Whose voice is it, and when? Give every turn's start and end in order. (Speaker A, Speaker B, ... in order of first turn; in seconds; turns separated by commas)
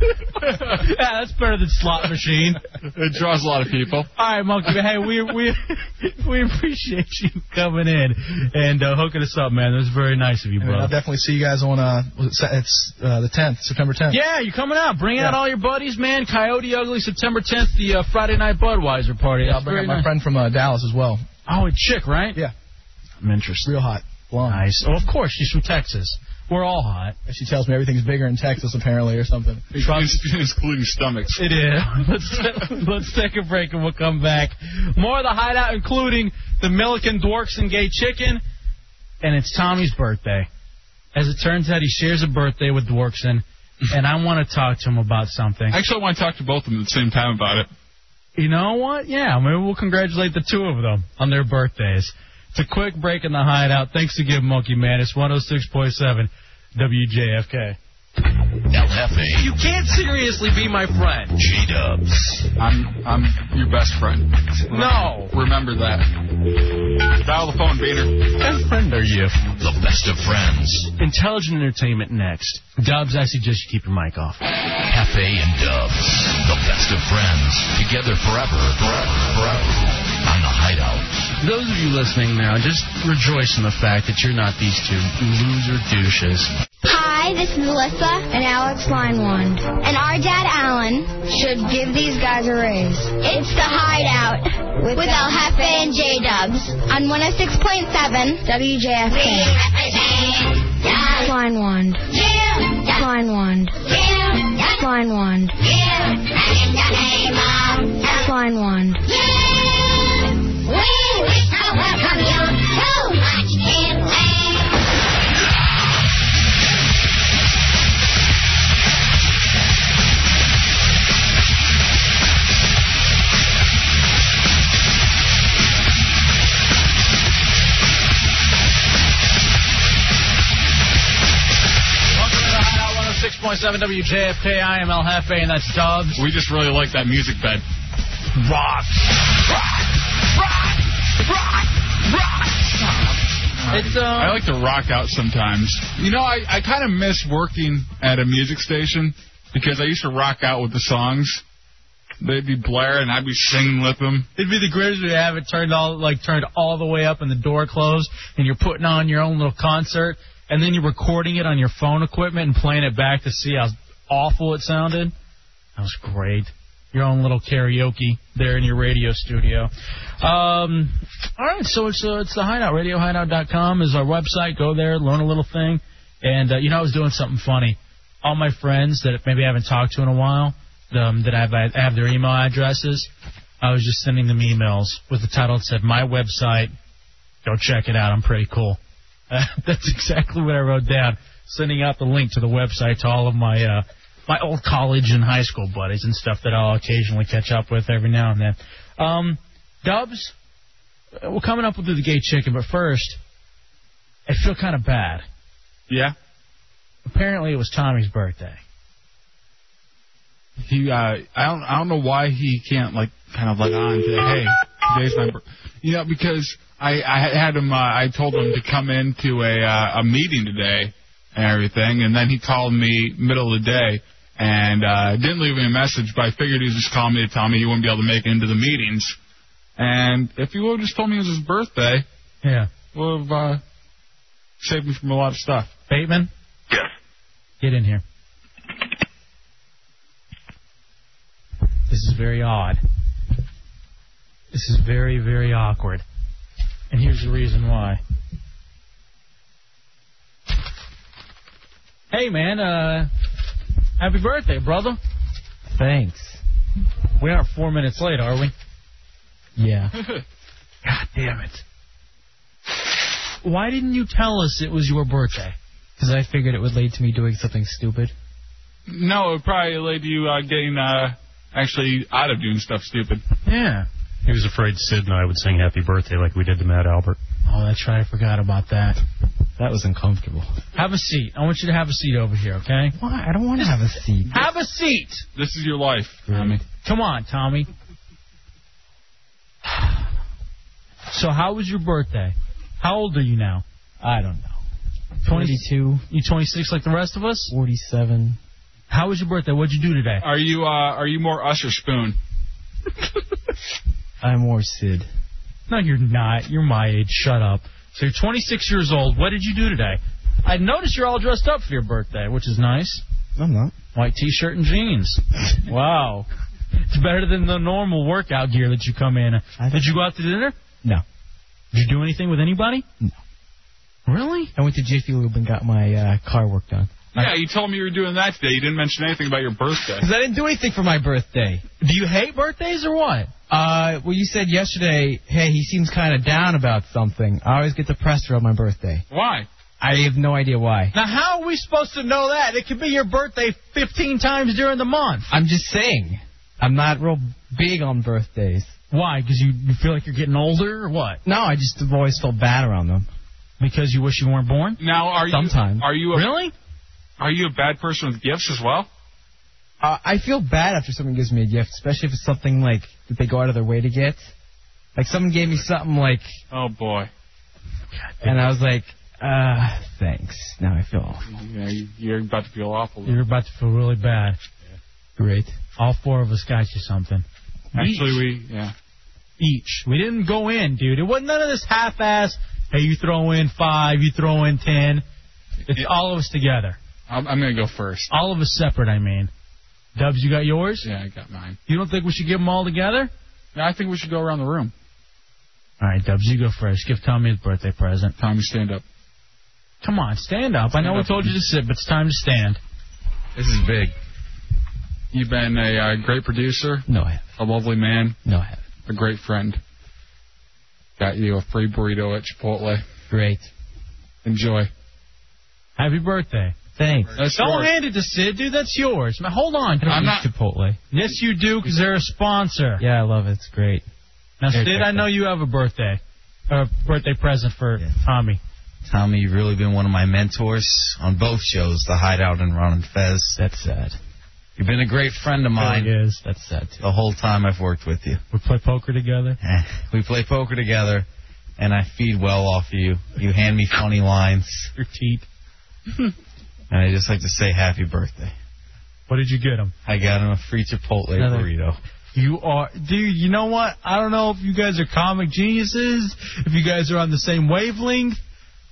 Speaker A: 0.4-0.8, Speaker B: 0.4-2.6, Speaker A: 2.9-4.1, Speaker B: 4.2-10.9, Speaker C: 10.6-14.2, Speaker B: 14.1-20.1, Speaker C: 19.4-21.2, Speaker B: 21.5-22.4, Speaker B: 23.2-23.7, Speaker C: 23.6-24.6, Speaker B: 24.5-27.2, Speaker C: 27.3-29.7, Speaker A: 29.7-31.5, Speaker B: 29.8-30.2, Speaker B: 31.4-38.4, Speaker B: 39.2-40.5, Speaker B: 41.1-45.8, Speaker A: 45.7-47.7, Speaker B: 48.4-57.8, Speaker D: 58.7-59.5, Speaker B: 59.4-61.4, Speaker D: 61.4-62.5, Speaker A: 62.6-66.1, Speaker B: 64.7-65.3, Speaker A: 67.2-68.2, Speaker B: 68.4-69.4, Speaker D: 69.6-70.9, Speaker B: 71.0-74.4, Speaker D: 74.9-81.1, Speaker B: 81.4-86.5, Speaker E: 86.8-114.7, Speaker B: 132.2-136.2, Speaker A: 136.2-137.6, Speaker B: 138.4-138.8, Speaker A: 142.6-151.4, Speaker B: 143.7-144.4, Speaker A: 152.2-154.3, Speaker B: 154.4-165.1, Speaker B: 165.8-169.7, Speaker B: 170.2-183.1, Speaker B: 183.6-186.7, Speaker B: 187.4-188.8, Speaker B: 189.3-200.3, Speaker B: 201.2-203.2, Speaker B: 204.3-205.2, Speaker A: 205.9-206.2, Speaker B: 207.1-208.6, Speaker A: 210.6-229.2, Speaker A: 229.8-232.1, Speaker B: 232.4-232.7, Speaker A: 232.9-233.6, Speaker A: 234.6-235.7, Speaker B: 235.9-236.3, Speaker B: 237.6-238.0, Speaker B: 241.9-242.8, Speaker B: 244.5-246.0, Speaker B: 246.9-248.0, Speaker B: 252.1-253.1, Speaker B: 254.0-255.0, Speaker F: 255.7-256.4, Speaker B: 257.2-258.5, Speaker F: 259.6-259.9, Speaker B: 260.9-261.6, Speaker B: 263.4-265.6, Speaker F: 266.0-268.1, Speaker A: 268.9-273.2, Speaker B: 273.5-273.9, Speaker G: 274.2-277.2, Speaker B: 277.5-279.0, Speaker F: 279.6-280.6, Speaker B: 280.8-282.9, Speaker F: 283.0-284.5, Speaker B: 283.6-285.2, Speaker A: 285.4-286.6, Speaker F: 286.3-286.6, Speaker B: 286.8-287.7, Speaker B: 291.1-293.6, Speaker F: 294.0-294.6, Speaker F: 295.2-296.0, Speaker B: 295.3-297.5, Speaker F: 297.5-298.4, Speaker B: 298.9-300.2, Speaker A: 300.2-302.2, Speaker F: 304.2-305.1, Speaker B: 305.7-313.0, Speaker F: 313.4-313.7, Speaker B: 313.9-316.3, Speaker B: 316.9-320.6, Speaker F: 319.6-320.0, Speaker B: 321.7-322.9, Speaker B: 324.1-324.5, Speaker F: 324.6-327.3, Speaker A: 327.1-330.1, Speaker F: 330.0-331.6, Speaker B: 331.8-333.3, Speaker F: 333.5-339.1, Speaker A: 339.1-339.5, Speaker F: 339.8-340.9, Speaker B: 340.9-345.3, Speaker F: 345.3-348.7, Speaker B: 348.9-351.2, Speaker F: 351.2-353.1, Speaker B: 353.6-354.8, Speaker A: 354.8-356.3, Speaker F: 355.3-355.9, Speaker B: 356.1-356.5, Speaker A: 357.2-358.9, Speaker F: 359.8-364.3, Speaker F: 365.0-366.4, Speaker A: 366.5-367.1, Speaker B: 367.9-368.5, Speaker F: 368.2-371.2, Speaker A: 371.3-373.2, Speaker B: 373.1-374.4, Speaker F: 375.2-375.6, Speaker B: 375.8-378.2, Speaker A: 377.8-378.7, Speaker B: 379.4-385.0, Speaker B: 385.7-386.8, Speaker A: 387.1-388.1, Speaker B: 388.1-389.3, Speaker B: 390.0-390.9, Speaker A: 390.8-391.6, Speaker B: 391.7-393.1, Speaker A: 393.6-394.7, Speaker B: 395.8-398.1, Speaker A: 398.2-398.8, Speaker B: 399.8-402.6, Speaker A: 400.8-401.3, Speaker H: 403.4-403.9, Speaker A: 405.1-408.2, Speaker F: 406.9-407.3, Speaker F: 408.2-408.6, Speaker A: 408.9-409.6, Speaker A: 411.0-412.8, Speaker F: 413.1-413.5, Speaker A: 414.2-414.7, Speaker B: 415.8-416.6, Speaker F: 416.8-417.2, Speaker A: 417.1-417.7, Speaker B: 417.3-420.1, Speaker F: 419.8-420.8, Speaker A: 419.9-420.3, Speaker B: 420.9-422.8, Speaker F: 422.8-423.9, Speaker B: 424.4-428.4, Speaker F: 424.5-425.1, Speaker H: 428.9-433.4, Speaker F: 433.4-434.0, Speaker H: 434.6-435.9, Speaker B: 435.6-436.2, Speaker F: 436.2-436.8, Speaker H: 436.8-438.2, Speaker B: 438.3-439.4, Speaker H: 439.4-441.1, Speaker H: 441.6-444.7, Speaker B: 444.8-445.2, Speaker H: 446.7-448.3, Speaker B: 449.1-449.7, Speaker H: 449.9-451.8, Speaker F: 451.2-451.5, Speaker B: 452.1-458.2